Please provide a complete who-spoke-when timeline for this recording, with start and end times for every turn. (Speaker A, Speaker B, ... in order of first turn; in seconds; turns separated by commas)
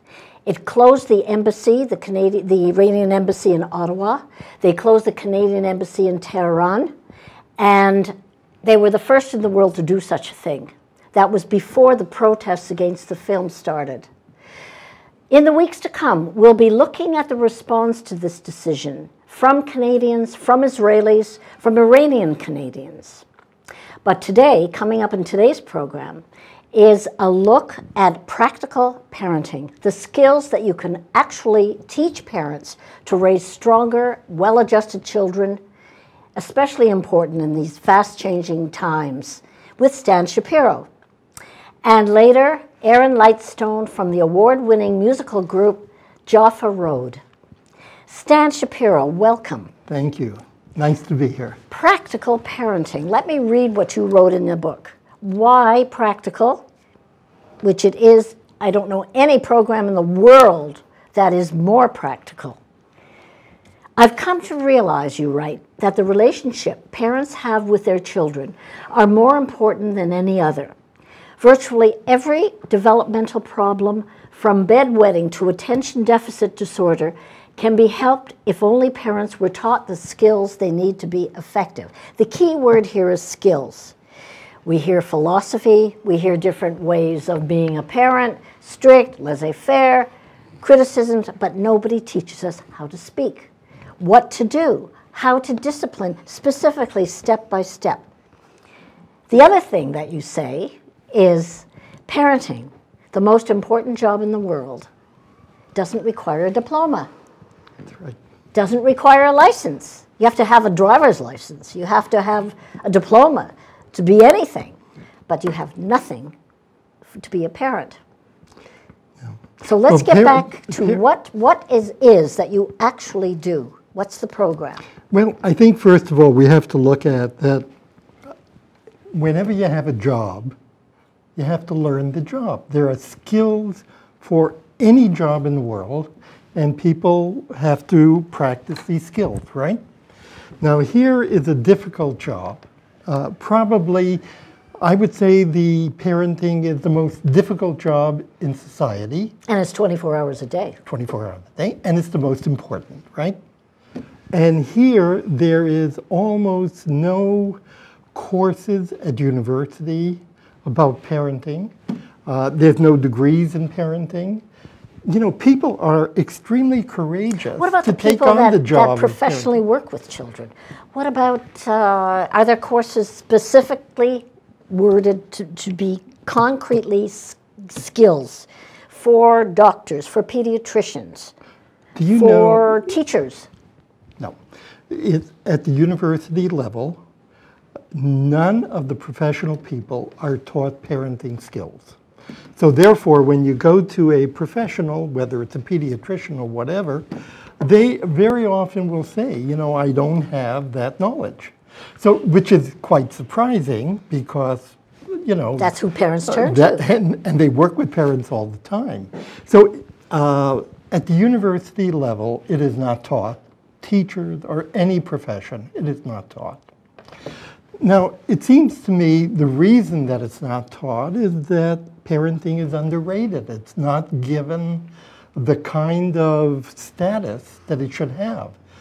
Speaker A: 0.5-6.9, Speaker A: 7.6-14.1, Speaker A: 15.3-23.2, Speaker A: 24.1-35.6, Speaker A: 36.4-40.9, Speaker A: 41.8-47.2, Speaker A: 48.1-49.7, Speaker B: 49.9-51.6, Speaker A: 51.7-56.6, Speaker A: 57.6-62.6, Speaker A: 64.0-70.7, Speaker A: 71.4-84.0, Speaker A: 84.7-90.1, Speaker A: 90.6-98.0, Speaker A: 99.3-104.9, Speaker A: 105.7-107.1, Speaker A: 108.5-114.8, Speaker A: 115.3-116.3, Speaker A: 117.1-118.0, Speaker A: 119.6-124.8, Speaker B: 119.9-121.0, Speaker B: 125.1-127.7, Speaker B: 129.1-130.6, Speaker B: 131.4-139.8, Speaker B: 140.6-144.2, Speaker B: 144.8-149.3, Speaker A: 149.5-150.8, Speaker B: 150.8-153.4, Speaker B: 154.3-157.6, Speaker B: 158.1-161.7, Speaker B: 162.3-164.4, Speaker B: 165.1-169.6, Speaker A: 167.6-181.3, Speaker B: 181.9-182.7, Speaker A: 182.1-183.5, Speaker B: 184.9-187.0, Speaker B: 187.9-192.0, Speaker B: 192.6-197.1, Speaker B: 197.6-205.7, Speaker A: 205.6-206.9, Speaker B: 206.3-216.6, Speaker B: 217.8-228.6